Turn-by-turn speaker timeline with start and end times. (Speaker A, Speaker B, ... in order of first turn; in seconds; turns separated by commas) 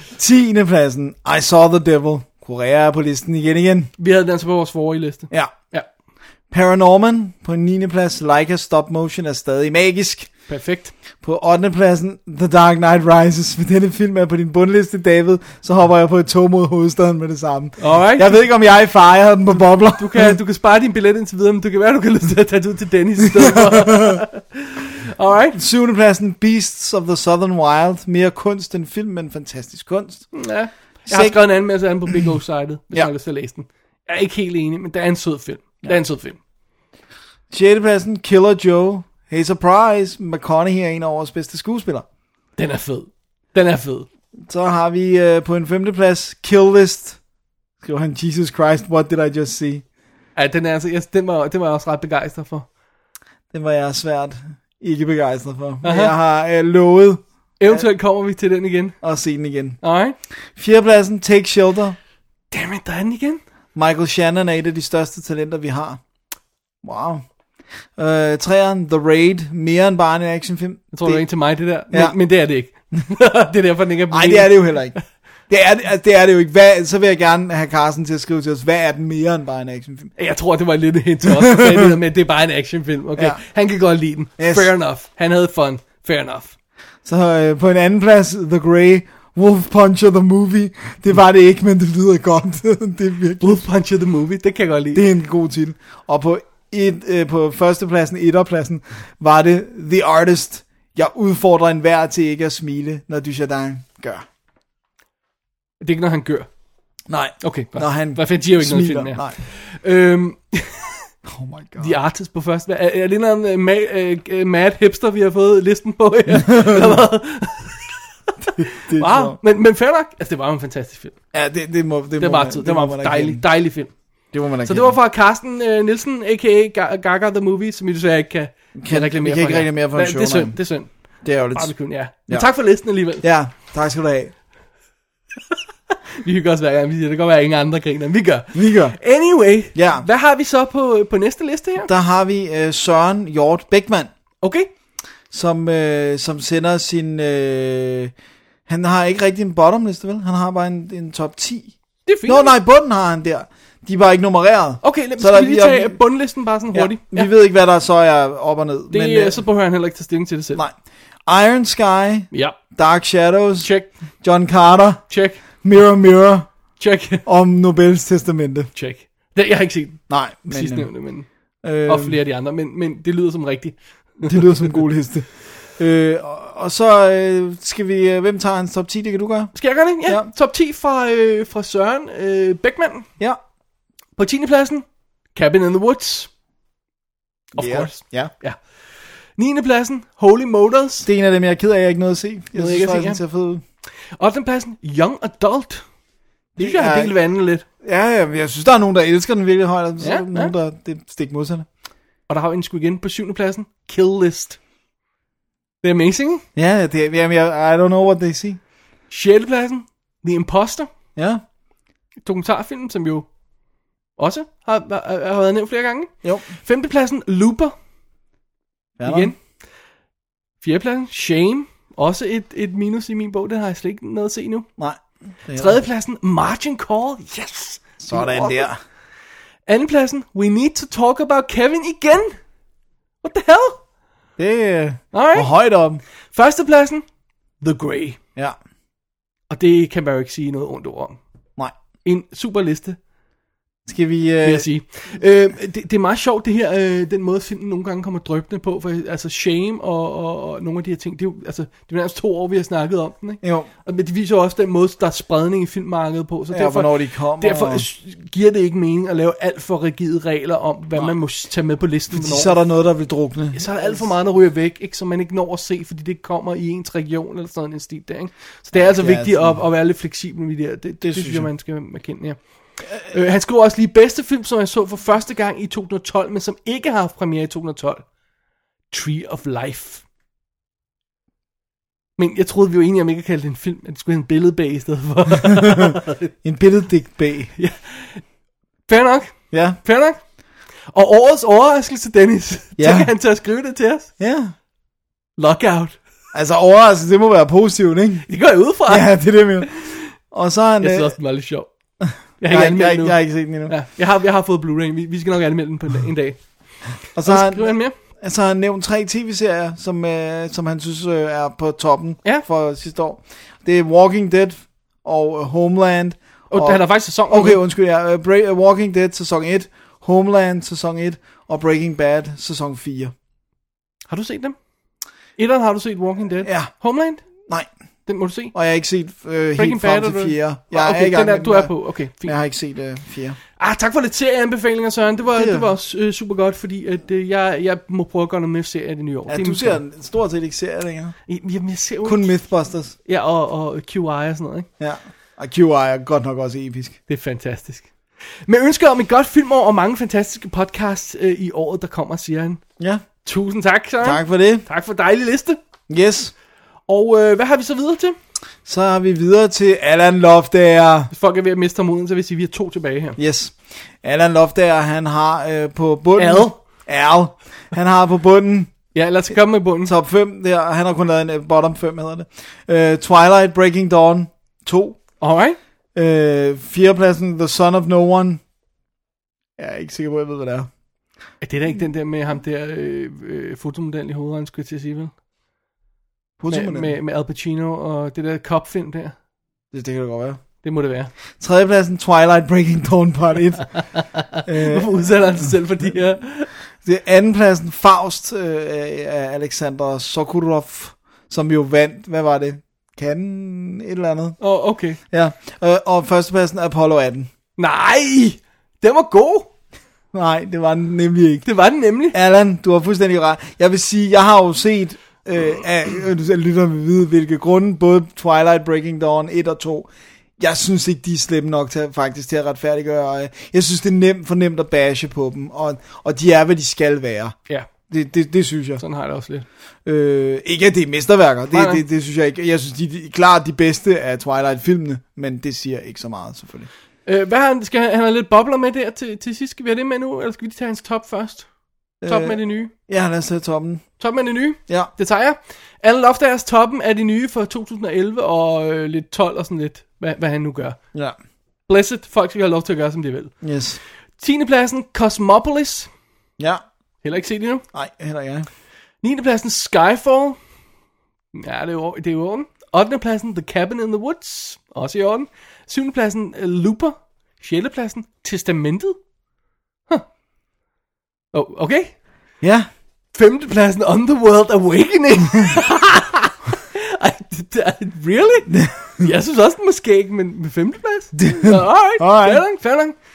Speaker A: 0.1-3.9, Speaker B: 4.0-5.9, Speaker A: 6.5-10.3, Speaker B: 10.5-10.9, Speaker A: 11.2-20.4, Speaker B: 17.8-18.4, Speaker B: 20.0-25.6, Speaker A: 23.4-24.2, Speaker A: 25.5-30.3, Speaker B: 30.3-36.4, Speaker A: 31.1-31.4, Speaker A: 37.5-42.0, Speaker B: 42.6-44.1, Speaker A: 44.4-47.2, Speaker A: 47.8-49.8, Speaker B: 50.4-52.6, Speaker A: 53.5-57.8, Speaker B: 55.8-56.1, Speaker B: 57.6-59.0, Speaker A: 59.0-59.8, Speaker B: 59.8-60.1, Speaker A: 60.5-62.0, Speaker B: 62.5-63.4, Speaker A: 63.7-66.0, Speaker A: 66.8-67.2, Speaker A: 68.0-71.2, Speaker B: 70.9-75.0, Speaker A: 71.9-72.2, Speaker A: 74.1-75.0, Speaker A: 75.5-80.1, Speaker B: 80.2-86.5, Speaker A: 81.3-81.9, Speaker A: 84.4-84.7, Speaker A: 87.0-93.6, Speaker B: 93.4-95.0, Speaker A: 94.9-104.2, Speaker B: 105.8-106.5, Speaker A: 107.1-109.4, Speaker B: 107.4-111.0, Speaker A: 111.2-112.0, Speaker B: 111.8-117.9, Speaker A: 116.5-116.9, Speaker A: 118.6-119.4, Speaker B: 118.8-121.1, Speaker A: 121.3-123.5, Speaker B: 122.2-123.9, Speaker A: 124.3-124.9, Speaker B: 124.6-130.9, Speaker A: 128.8-130.6, Speaker A: 131.2-132.5, Speaker B: 131.5-133.2, Speaker A: 133.2-134.3, Speaker B: 136.2-141.9, Speaker A: 138.5-139.0, Speaker A: 139.7-140.1, Speaker A: 141.8-144.1, Speaker B: 144.4-144.7, Speaker A: 145.3-148.1, Speaker A: 148.7-156.0, Speaker B: 152.1-152.5, Speaker B: 154.8-157.3, Speaker A: 156.7-159.4, Speaker B: 158.9-160.6, Speaker A: 161.2-163.7, Speaker B: 162.3-162.6, Speaker B: 163.6-163.9, Speaker A: 164.2-165.0, Speaker B: 165.1-165.4, Speaker A: 165.6-166.5, Speaker B: 166.8-167.2, Speaker A: 167.2-168.7, Speaker B: 168.7-171.3, Speaker A: 170.1-170.9, Speaker A: 171.6-172.2, Speaker B: 171.8-174.7, Speaker A: 174.2-180.3, Speaker B: 179.5-183.1, Speaker B: 184.2-186.3, Speaker B: 187.5-188.6, Speaker A: 187.6-188.3, Speaker B: 189.3-191.1, Speaker A: 191.0-193.6, Speaker B: 192.5-193.2, Speaker B: 194.2-195.8, Speaker A: 196.6-197.1, Speaker B: 196.6-197.6, Speaker A: 197.8-201.7, Speaker B: 200.0-200.5, Speaker B: 202.3-204.6, Speaker B: 205.8-206.4, Speaker A: 206.6-208.6, Speaker B: 209.1-210.9, Speaker A: 211.2-211.4, Speaker B: 212.2-213.3, Speaker B: 214.2-217.7, Speaker A: 216.2-216.5, Speaker A: 219.0-219.3, Speaker B: 219.0-219.4, Speaker B: 220.6-224.7, Speaker A: 224.8-225.8, Speaker B: 225.5-228.7, Speaker A: 228.0-228.8, Speaker B: 229.7-232.4, Speaker B: 233.2-233.8, Speaker A: 234.4-236.0, Speaker B: 235.1-235.5, Speaker B: 236.3-237.0, Speaker B: 237.6-238.2, Speaker B: 239.5-241.2, Speaker B: 242.0-243.0, Speaker A: 243.8-244.7, Speaker B: 244.4-262.6, Speaker A: 253.4-253.7, Speaker A: 256.5-257.9, Speaker A: 262.1-264.1, Speaker B: 263.5-278.0, Speaker A: 268.7-269.6, Speaker A: 271.0-271.5, Speaker B: 278.9-280.0, Speaker B: 282.2-286.3, Speaker A: 285.6-287.5, Speaker B: 287.6-288.2, Speaker B: 288.9-290.2, Speaker A: 289.5-289.8, Speaker B: 290.9-294.1, Speaker A: 292.8-293.1, Speaker A: 294.2-294.5, Speaker B: 295.4-296.0, Speaker A: 296.3-298.3, Speaker B: 298.3-300.1, Speaker A: 298.8-301.1, Speaker B: 300.8-301.7, Speaker A: 302.0-303.7, Speaker B: 302.4-306.4, Speaker A: 307.1-323.1, Speaker B: 307.2-307.9, Speaker B: 316.5-317.6, Speaker B: 324.1-324.6, Speaker B: 325.4-327.2, Speaker A: 326.4-326.7, Speaker B: 328.1-328.5, Speaker A: 328.5-333.4, Speaker B: 329.6-332.3, Speaker B: 333.6-339.8, Speaker A: 335.3-335.7, Speaker A: 339.3-341.1, Speaker B: 341.3-342.3, Speaker A: 342.0-342.9, Speaker B: 343.0-344.7, Speaker A: 344.8-347.0, Speaker B: 347.1-347.9, Speaker B: 348.4-352.6, Speaker A: 352.8-353.0, Speaker B: 353.2-355.6, Speaker A: 354.0-354.6, Speaker A: 355.9-356.3, Speaker B: 356.9-358.1, Speaker A: 358.6-361.1, Speaker B: 361.1-363.2, Speaker A: 363.2-368.7, Speaker B: 366.2-366.6, Speaker B: 368.9-369.9, Speaker A: 369.8-375.0, Speaker B: 375.2-375.6, Speaker A: 375.9-378.4, Speaker A: 379.6-380.7, Speaker B: 381.4-385.1, Speaker A: 386.4-386.9, Speaker B: 386.5-389.1, Speaker A: 389.7-390.4, Speaker B: 390.6-391.1, Speaker A: 391.4-393.8, Speaker B: 394.3-396.5, Speaker A: 394.4-395.5, Speaker A: 396.8-404.4, Speaker B: 404.4-405.0, Speaker A: 405.1-407.3, Speaker B: 407.6-409.5, Speaker A: 410.1-411.5, Speaker B: 411.4-412.1, Speaker A: 412.1-427.4, Speaker A: 427.9-428.8, Speaker B: 428.8-429.4, Speaker A: 429.8-436.7, Speaker B: 431.5-431.8, Speaker B: 437.1-441.5, Speaker A: 442.0-443.9, Speaker B: 442.0-442.7, Speaker B: 444.0-450.8, Speaker B: 451.7-453.3, Speaker A: 453.4-453.8, Speaker B: 454.2-455.9, Speaker B: 457.0-457.6, Speaker A: 457.7-458.5, Speaker B: 459.0-460.4, Speaker B: 461.3-469.0, Speaker B: 471.3-471.9, Speaker A: 472.4-472.7, Speaker B: 473.1-483.0, Speaker A: 478.5-479.1, Speaker A: 481.1-482.4